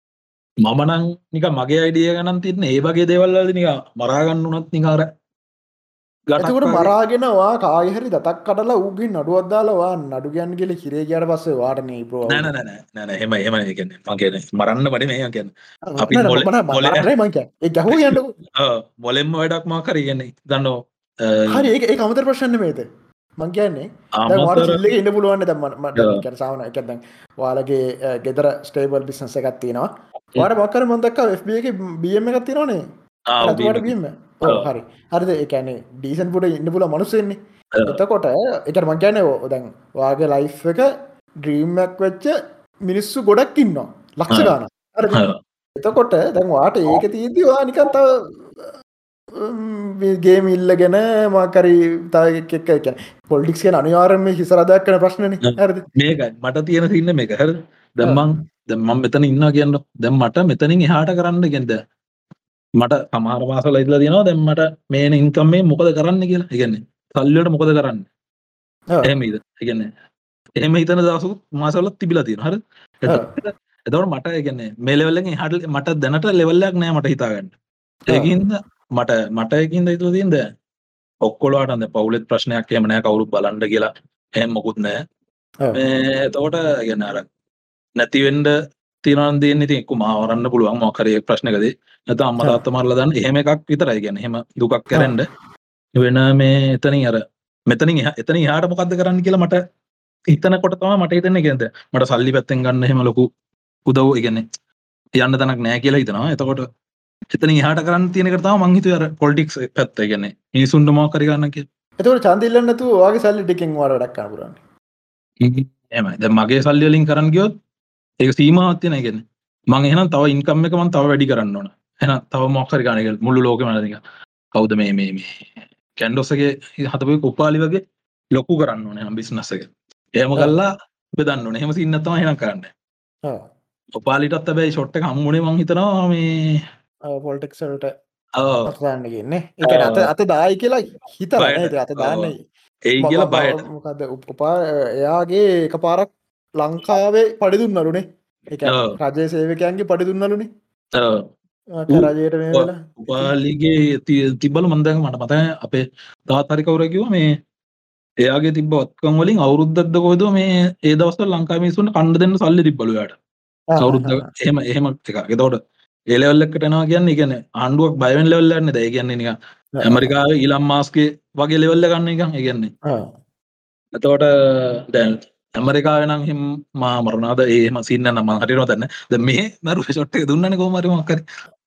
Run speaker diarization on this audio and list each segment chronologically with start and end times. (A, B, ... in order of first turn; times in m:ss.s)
0:00.6-0:05.1 A
0:06.3-0:06.9 A
0:06.4-0:12.5 B
0:12.3-0:17.1 A
0:15.9-0:18.4 B
0:17.9-0:21.7 A
0:21.5-0:22.9 B
0:23.4-0:32.8 B
0:24.2-0:24.8 A
0:26.0-0:26.2 A
0:33.3-0:33.9 A
0:33.4-0:40.9 B
0:37.7-0:38.0 A
0:41.4-0:42.3 B
0:42.9-0:45.2 B
0:44.3-0:44.6 A
0:45.1-0:45.4 A
0:45.8-0:48.7 B
0:49.3-0:55.8 B
0:55.5-1:01.8 A
1:02.8-1:08.1 A
1:09.0-1:09.9 A
1:10.6-1:17.5 A
1:18.1-1:20.4 A
1:21.2-1:24.9 A
1:25.7-1:27.3 A
1:28.0-1:28.5 A
1:29.0-1:35.3 A
1:36.0-1:39.6 A
1:40.3-1:43.3 A
1:43.9-1:44.4 A
1:45.2-1:46.7 A
1:47.3-1:51.6 A
1:52.0-1:54.6 B
1:55.4-1:57.5 A
1:58.2-2:04.0 A
2:04.6-2:05.3 A
2:06.0-2:07.8 A
2:08.3-2:12.7 A
2:13.3-2:13.5 B
2:14.0-2:16.6 A
2:17.1-2:17.9 B
2:18.4-2:18.7 A
2:18.7-2:22.4 B
2:19.6-2:20.1 A
2:21.4-2:22.3 A
2:22.9-2:23.6 A
2:23.0-2:30.5 B
2:28.6-2:29.0 A
2:31.0-2:31.3 A
2:31.8-2:33.3 B
2:31.9-2:37.3 A
2:38.2-2:43.2 A
2:43.7-2:44.3 B
2:43.8-2:45.6 A
2:46.1-2:52.7 A
2:49.8-2:50.1 B
2:54.0-3:01.2 A